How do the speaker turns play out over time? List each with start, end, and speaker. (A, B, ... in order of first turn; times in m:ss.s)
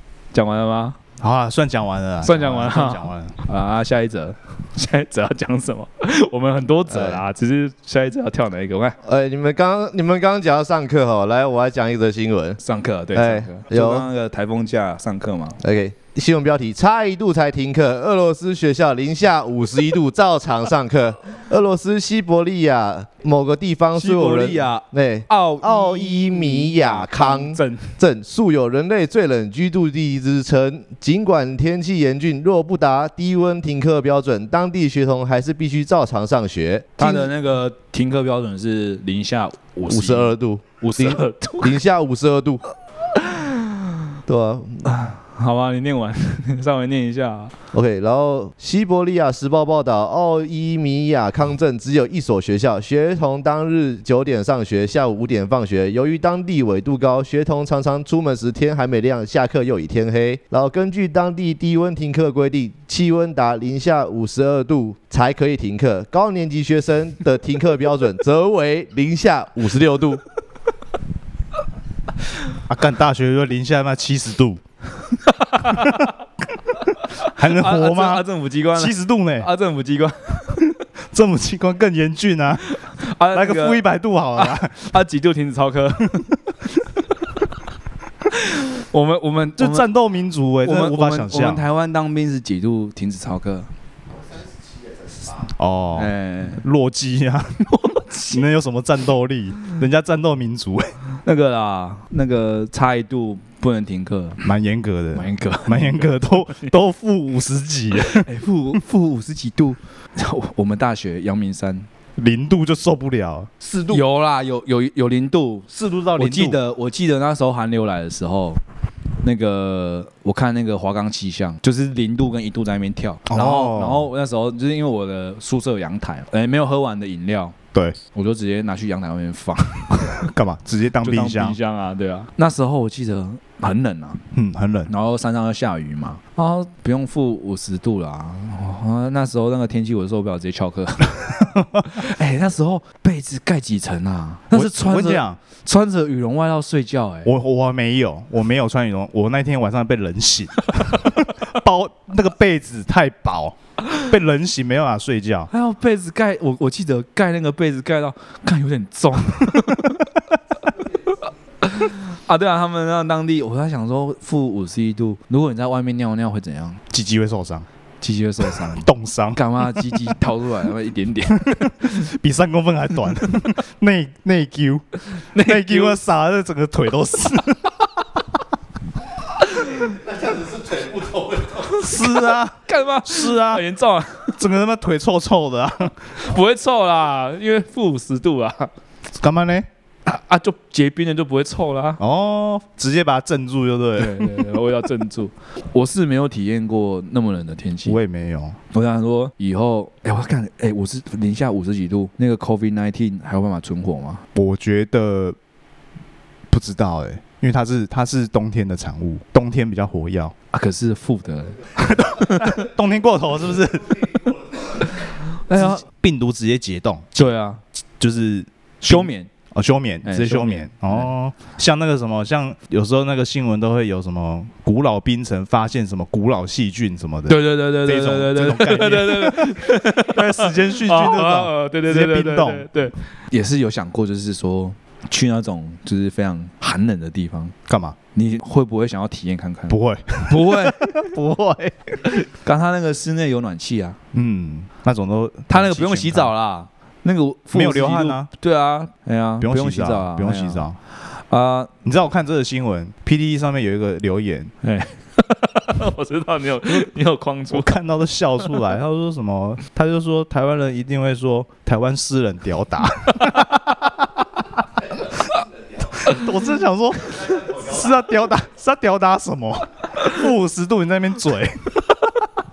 0:00.3-0:01.0 A
0:01.2-0:03.3 B
0:02.2-0:09.0 A
0:06.9-0:07.2 C
0:09.0-0:12.6 C
0:12.6-0:15.6 A
0:13.1-0:14.1 C
0:15.6-0:37.3 C
0:23.9-0:28.0 A
0:37.0-0:41.8 A
0:39.9-0:42.6 C
0:43.1-0:44.0 A
0:44.2-0:44.9 C
0:44.8-0:47.5 A
0:47.7-1:10.2 C
1:12.7-1:14.6 B
1:15.1-1:16.1 A
1:15.7-1:16.0 B
1:17.1-1:20.8 A
1:17.2-1:19.5 B
1:20.6-1:22.7 B
1:22.8-1:26.3 A
1:23.3-1:24.9 B
1:28.3-1:29.9 A
1:29.6-1:31.6 B
1:30.6-1:33.7 A
1:35.6-1:37.6 B
1:35.9-1:36.6 A
1:37.7-1:38.4 A
1:38.3-1:41.0 B
1:41.2-1:44.4 A
1:44.4-1:48.3 B
1:45.1-1:46.7 A
1:48.0-1:51.9 A
1:52.2-1:53.6 B
1:53.8-1:58.6 A
1:55.9-1:56.6 B
1:59.2-2:07.6 A
2:03.3-2:04.1 B
2:08.1-2:10.2 A
2:10.0-2:11.6 B
2:11.0-2:14.2 A
2:14.3-2:14.9 B
2:14.9-2:27.3 A
2:24.5-2:25.4 B
2:27.2-2:35.5 B
2:35.5-2:40.1 A
2:40.8-2:46.8 A
2:46.9-2:47.6 B
2:48.0-2:51.9 A
2:48.7-2:50.0 B
2:51.5-2:58.1 B
2:55.1-2:56.0 A
2:59.4-3:00.0 A
3:00.5-3:01.2 C
3:01.5-3:04.4 A
3:01.7-3:03.6 B
3:04.4-3:06.2 B
3:06.2-3:08.7 A
3:09.2-3:09.7 B
3:10.0-3:12.0 A
3:12.0-3:14.5 B
3:14.0-3:18.0 A
3:17.8-3:18.6 B
3:18.7-3:24.2 A
3:24.3-3:25.4 B
3:26.5-3:30.3 B
3:30.5-3:32.6 A
3:32.2-3:34.4 B
3:34.8-3:35.8 A
3:35.5-3:37.1 B
3:37.1-3:37.6 A
3:38.0-3:52.7 B
3:38.8-3:39.3 A
3:40.0-3:41.1 A
3:47.3-3:57.5 A
3:57.7-3:58.0 B
3:58.1-4:01.0 A
3:59.7-4:02.0 B
4:02.0-4:04.0 A
4:04.1-4:06.3 B
4:05.5-4:11.7 A
4:07.5-4:08.3 B
4:09.4-4:10.8 B
4:11.8-4:14.5 B
4:14.6-4:17.7 A
4:17.5-4:24.1 B
4:23.2-4:23.5 A
4:26.0-4:31.9 B